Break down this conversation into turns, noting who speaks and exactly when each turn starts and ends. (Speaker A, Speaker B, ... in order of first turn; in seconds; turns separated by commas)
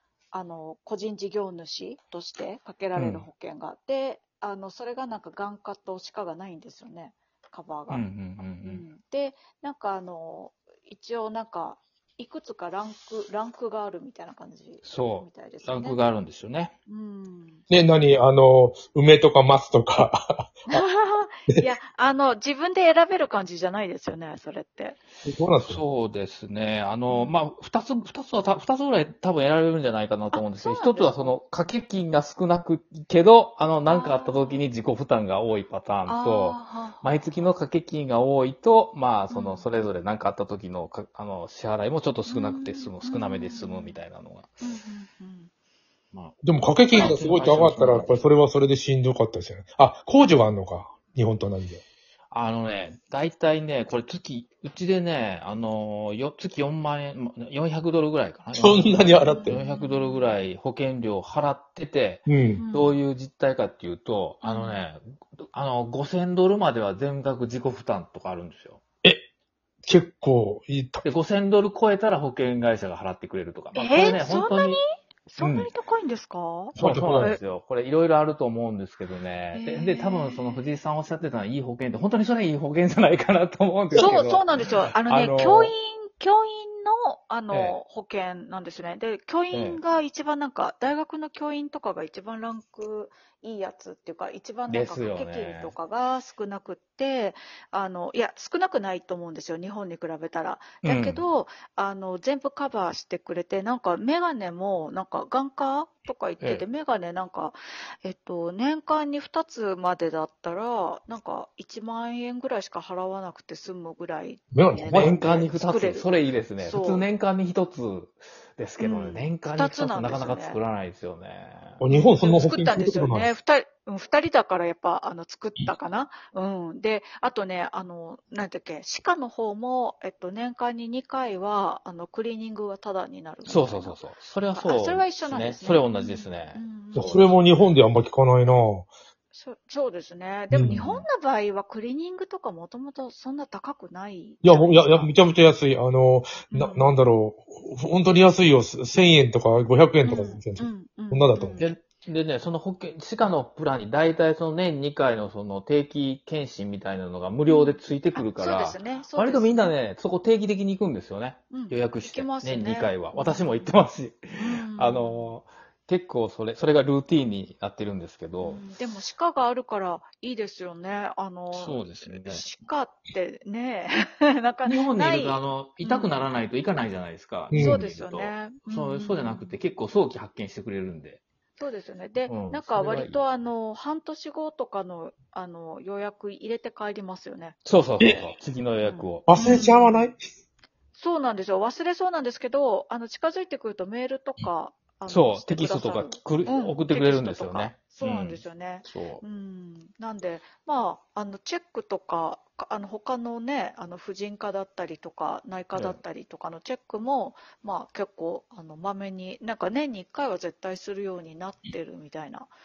Speaker A: 0.3-16.0, Speaker B: 3.0-3.2, Speaker B: 7.9-8.9, Speaker B: 14.8-16.7, Speaker A: 16.9-17.6, Speaker C: 17.7-20.5, Speaker A: 20.7-25.0, Speaker C: 25.2-25.8, Speaker B: 25.6-44.6, Speaker A: 27.1-27.4, Speaker A: 30.3-31.4, Speaker A: 33.9-34.7, Speaker A: 36.1-37.0, Speaker A: 39.3-39.7, Speaker A: 42.3-44.0, Speaker A: 44.6-45.5, Speaker C: 46.4-51.8, Speaker B: 46.9-48.3, Speaker B: 52.3-65.0, Speaker C: 58.5-59.6, Speaker A: 59.2-60.4, Speaker C: 62.3-62.6, Speaker A: 62.6-63.0, Speaker A: 64.4-64.8, Speaker B: 65.5-68.8, Speaker C: 69.8-71.0, Speaker B: 71.0-74.8, Speaker A: 73.8-77.4, Speaker B: 75.4-75.7, Speaker C: 76.8-77.4, Speaker B: 76.8-85.7, Speaker A: 79.5-80.5, Speaker A: 83.9-117.1, Speaker B: 87.5-87.8, Speaker B: 89.5-89.8, Speaker B: 94.7-95.7, Speaker B: 100.8-101.2, Speaker C: 114.5-115.3, Speaker B: 114.9-121.8, Speaker A: 118.8-120.6, Speaker C: 121.8-123.3, Speaker A: 121.9-134.0, Speaker B: 133.4-137.4, Speaker A: 134.5-137.2, Speaker C: 136.9-138.9, Speaker A: 139.3-145.1, Speaker C: 140.5-140.8, Speaker B: 140.7-141.0, Speaker C: 144.4-151.7, Speaker A: 146.5-146.9, Speaker A: 150.0-151.8, Speaker B: 151.6-168.6, Speaker A: 157.5-159.8, Speaker A: 161.5-163.8, Speaker A: 164.4-165.4, Speaker A: 168.4-176.2, Speaker B: 171.5-172.4, Speaker B: 174.7-181.2, Speaker C: 177.5-177.8, Speaker A: 177.5-179.6, Speaker A: 181.6-187.6, Speaker B: 182.3-183.2, Speaker B: 187.7-189.7, Speaker A: 188.8-190.1, Speaker C: 189.3-190.2, Speaker A: 190.9-212.5, Speaker B: 195.1-199.2, Speaker B: 205.7-206.0